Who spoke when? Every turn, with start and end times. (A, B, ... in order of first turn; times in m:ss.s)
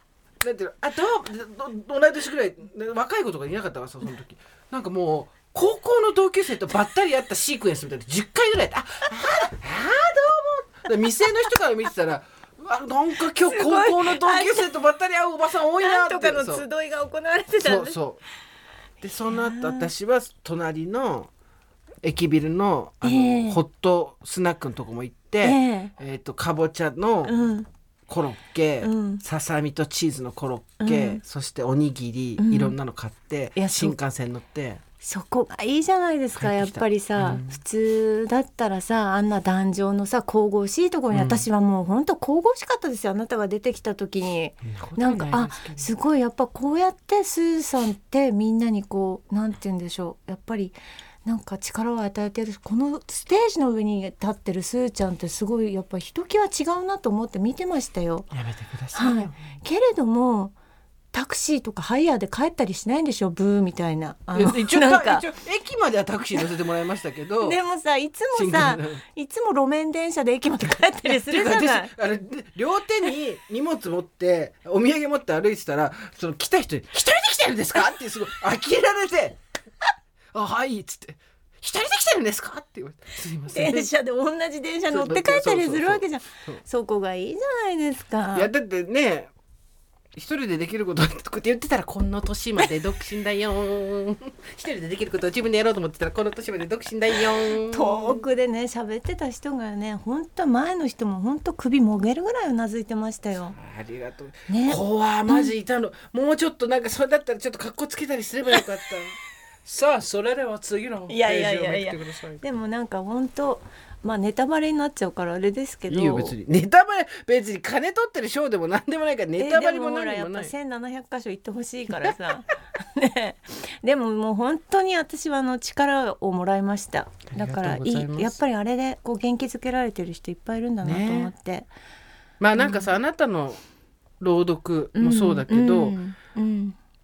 0:00.4-0:16.6 A
0:13.4-0:14.7 B
0:15.8-0:18.0 B
0:17.6-0:18.2 A
0:19.0-0:21.3 A
0:19.3-0:19.9 B
0:22.0-0:27.4 A
0:23.0-0:23.6 B
0:25.4-0:25.9 B
0:27.2-0:27.7 B
0:28.1-0:34.8 A
0:28.8-0:29.2 B
0:30.8-0:31.2 B
0:32.4-0:32.7 B
0:33.6-0:34.0 B
0:35.0-0:58.3 B
0:36.4-0:37.6 A
0:41.1-0:41.4 A
0:44.6-0:45.9 A
0:58.3-0:59.4 A
0:58.9-1:00.6 B
1:01.1-1:05.3 B
1:04.3-1:07.6 A
1:07.4-1:11.9 B
1:08.3-1:09.0 A
1:11.0-1:19.4 A
1:20.3-1:23.9 A
1:23.5-1:28.5 B
1:24.9-1:26.6 A
1:28.3-1:29.3 A
1:30.1-1:38.2 A
1:37.6-1:43.6 B
1:43.5-1:52.4 A
1:44.5-1:45.5 B
1:51.1-1:56.3 B
1:55.9-2:00.5 A
1:59.4-2:11.7 B
2:07.3-2:08.4 A
2:10.8-2:11.3 A
2:12.4-2:13.6 A
2:12.6-2:12.9 B
2:14.2-2:16.0 A
2:15.0-2:16.8 B